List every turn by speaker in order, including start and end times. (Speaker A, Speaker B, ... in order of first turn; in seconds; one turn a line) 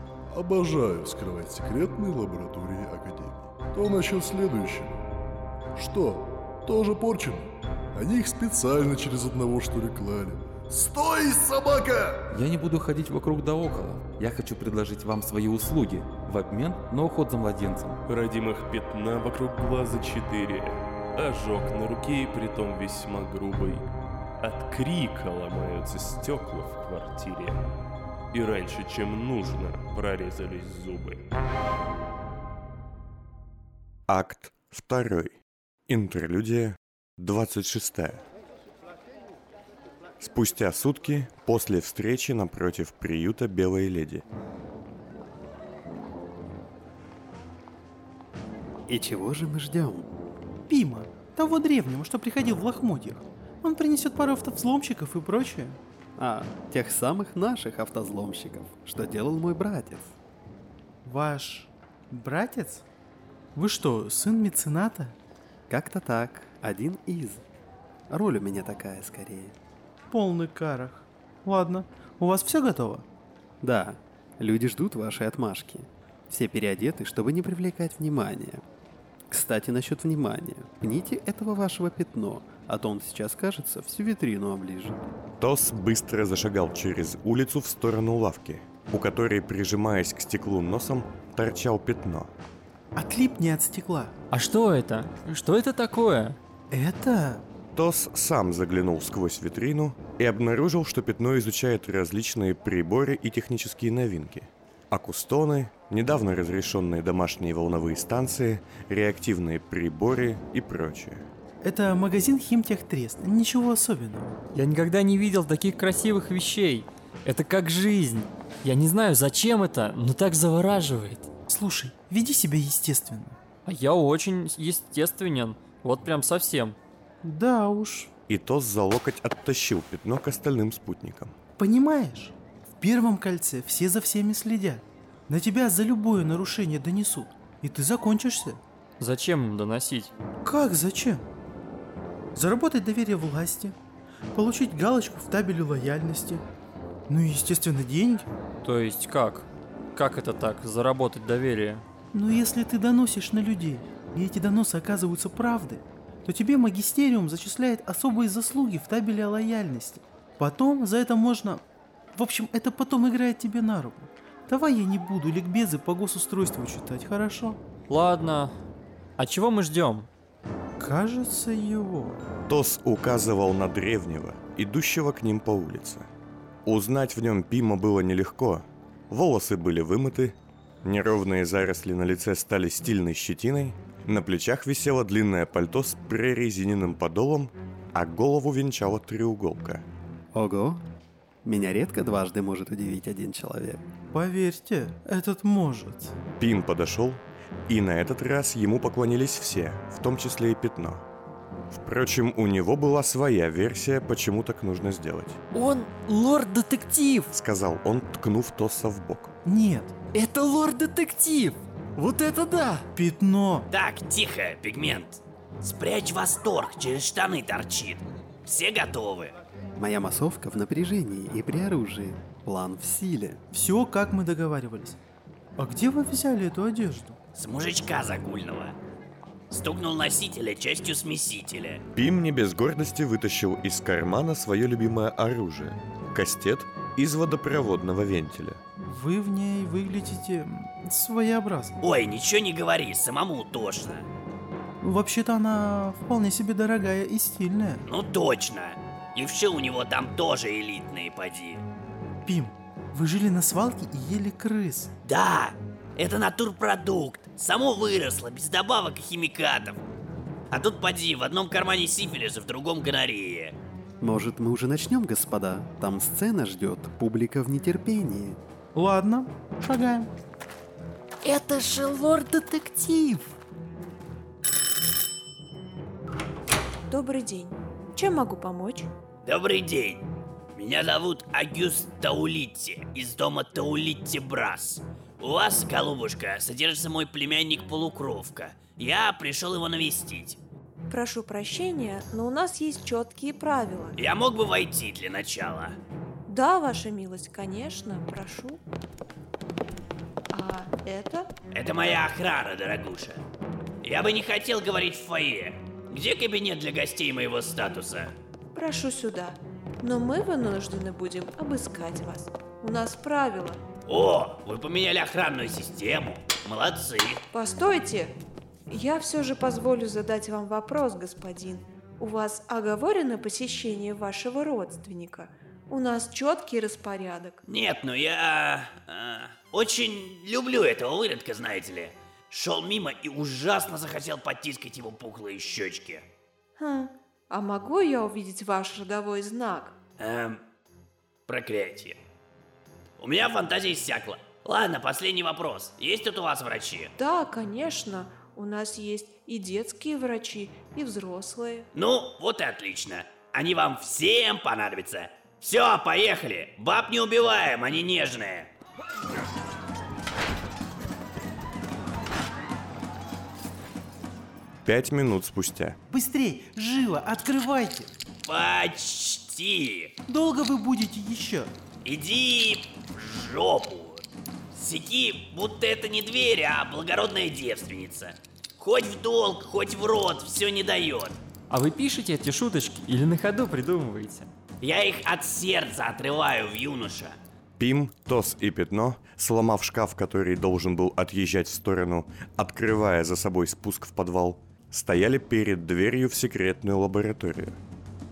Speaker A: 0.3-5.0
Speaker A: 5.8-12.2
Speaker B: 12.3-18.0
Speaker C: 18.1-23.9
Speaker C: 24.4-27.6
Speaker C: 28.3-31.3
Speaker D: 34.1-35.4
Speaker D: 35.9-38.2
Speaker D: 40.2-44.2
Speaker E: 48.9-50.1
Speaker F: 50.7-55.8
Speaker E: 56.2-60.1
Speaker F: 61.0-62.8
Speaker F: 63.5-65.2
Speaker E: 65.7-67.4
Speaker E: 68.1-69.5
Speaker F: 70.1-73.0
Speaker E: 73.6-78.6
Speaker E: 79.3-85.0
Speaker D: 85.4-92.3
Speaker F: 93.0-94.1
Speaker G: 94.3-96.4
Speaker F: 96.7-97.4
Speaker D: 97.7-111.3
Speaker F: 111.6-114.4
Speaker G: 114.5-121.3
Speaker F: 121.5-123.4
Speaker G: 123.7-126.8
Speaker F: 127.2-128.1
Speaker D: 128.3-131.3
Speaker F: 131.6-138.6
Speaker G: 139.0-140.1
Speaker F: 140.4-141.2
Speaker F: 142.3-143.8
Speaker F: 144.3-146.4
Speaker F: 147.1-148.3
Speaker G: 148.6-151.8
Speaker F: 152.1-167.6
Speaker G: 167.9-168.5
Speaker G: 169.2-170.1
Speaker F: 170.8-172.2
Speaker D: 172.5-176.1
Speaker D: 176.7-189.8
Speaker E: 190.3-190.8
Speaker E: 191.4-193.8
Speaker F: 194.1-196.1
Speaker D: 196.4-201.0
Speaker D: 201.7-205.4
Speaker G: 205.5-207.3
Speaker D: 207.3-209.3
Speaker F: 209.4-210.0
Speaker G: 210.1-212.8
Speaker F: 212.9-213.7
Speaker H: 213.7-219.3
Speaker E: 219.8-223.4
Speaker F: 223.5-225.0
Speaker F: 225.6-227.2
Speaker H: 227.3-228.8
Speaker H: 229.5-231.8
Speaker D: 231.9-238.6
Speaker F: 238.8-241.8
Speaker H: 241.8-244.1
Speaker F: 244.8-247.9
Speaker H: 247.9-251.7
Speaker F: 252.2-254.9
Speaker H: 255.0-259.8
Speaker H: 260.5-263.6
Speaker E: 264.0-268.4
Speaker F: 268.7-270.1
Speaker F: 271.2-273.2
Speaker I: 276.9-278.9
Speaker H: 279.2-290.4
Speaker I: 290.9-294.0
Speaker H: 294.0-295.8
Speaker I: 296.3-298.6
Speaker I: 300.3-301.3
Speaker H: 301.5-303.2
Speaker H: 303.8-308.1
Speaker I: 308.5-313.6
Speaker H: 313.9-317.2
Speaker I: 317.3-318.2
Speaker I: 318.7-327.4
Speaker H: 327.4-336.1
Speaker I: 336.6-339.8
Speaker H: 340.0-340.4
Speaker H: 341.3-342.0
Speaker H: 343.0-346.9
Speaker I: 347.0-351.7
Speaker H: 351.7-358.5
Speaker D: 364.6-365.8
Speaker F: 365.9-367.9
Speaker H: 368.3-369.9
Speaker F: 370.1-371.5
Speaker H: 371.8-381.2
Speaker G: 381.5-384.3
Speaker H: 384.6-387.2
Speaker D: 387.6-397.6